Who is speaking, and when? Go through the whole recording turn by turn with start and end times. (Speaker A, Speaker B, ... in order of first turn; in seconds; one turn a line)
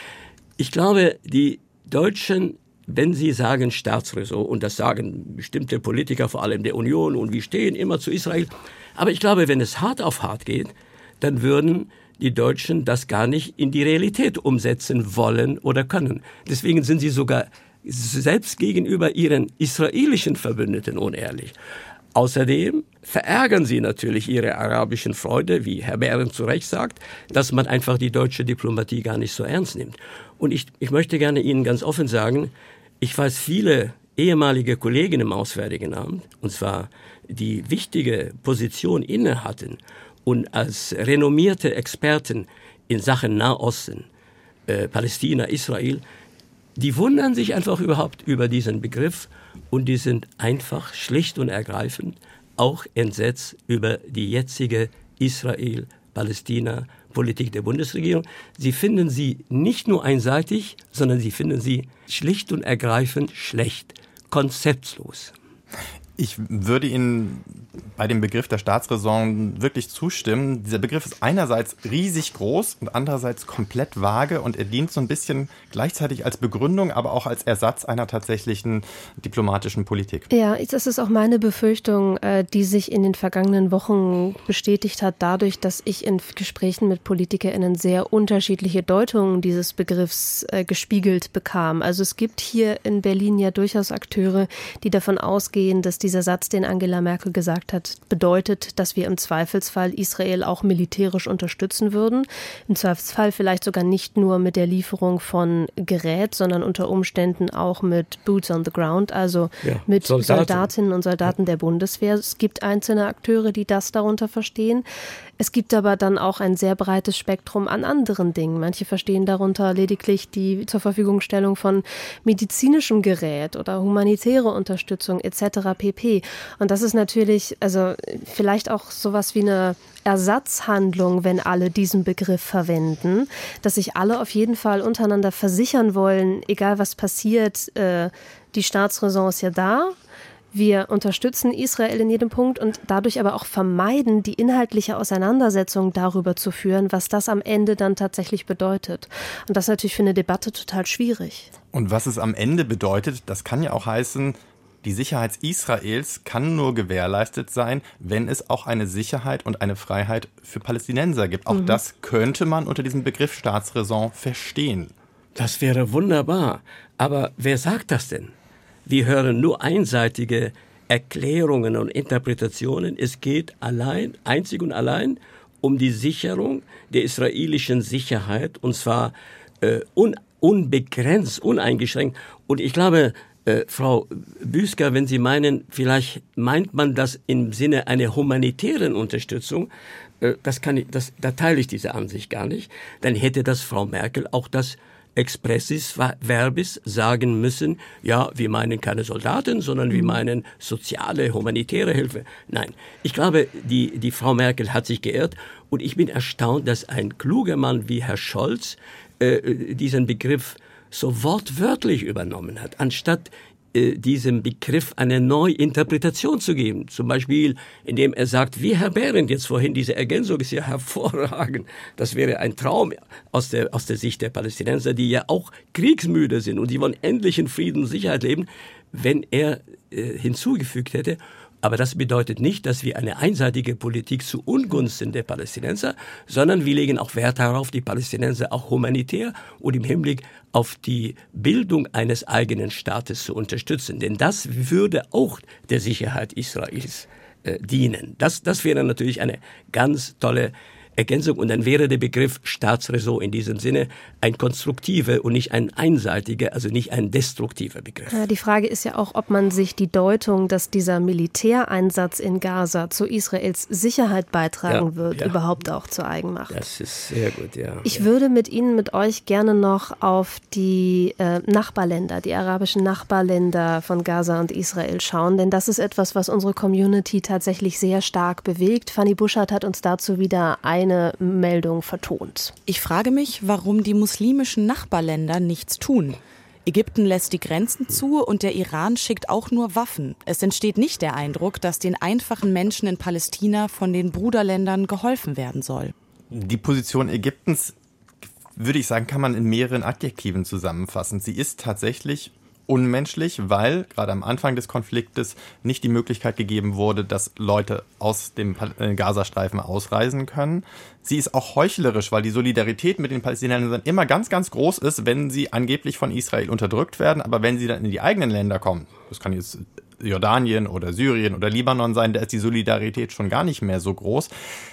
Speaker A: 0.6-21.5
Speaker A: 22.1-44.1
Speaker A: 44.7-46.0
Speaker A: 46.8-65.3
Speaker B: 66.2-80.3
Speaker C: 80.3-114.8
Speaker A: 109.6-110.7
Speaker C: 115.4-139.9
Speaker C: 140.5-151.5
Speaker B: 151.7-164.9
Speaker C: 161.5-161.8
Speaker A: 165.4-168.3
Speaker A: 168.9-189.7
Speaker A: 190.2-258.2
Speaker C: 258.1-266.6
Speaker A: 264.7-265.4
Speaker A: 266.5-268.1
Speaker C: 267.9-282.6
Speaker D: 282.7-295.9
Speaker B: 296.3-297.8
Speaker B: 298.6-324.3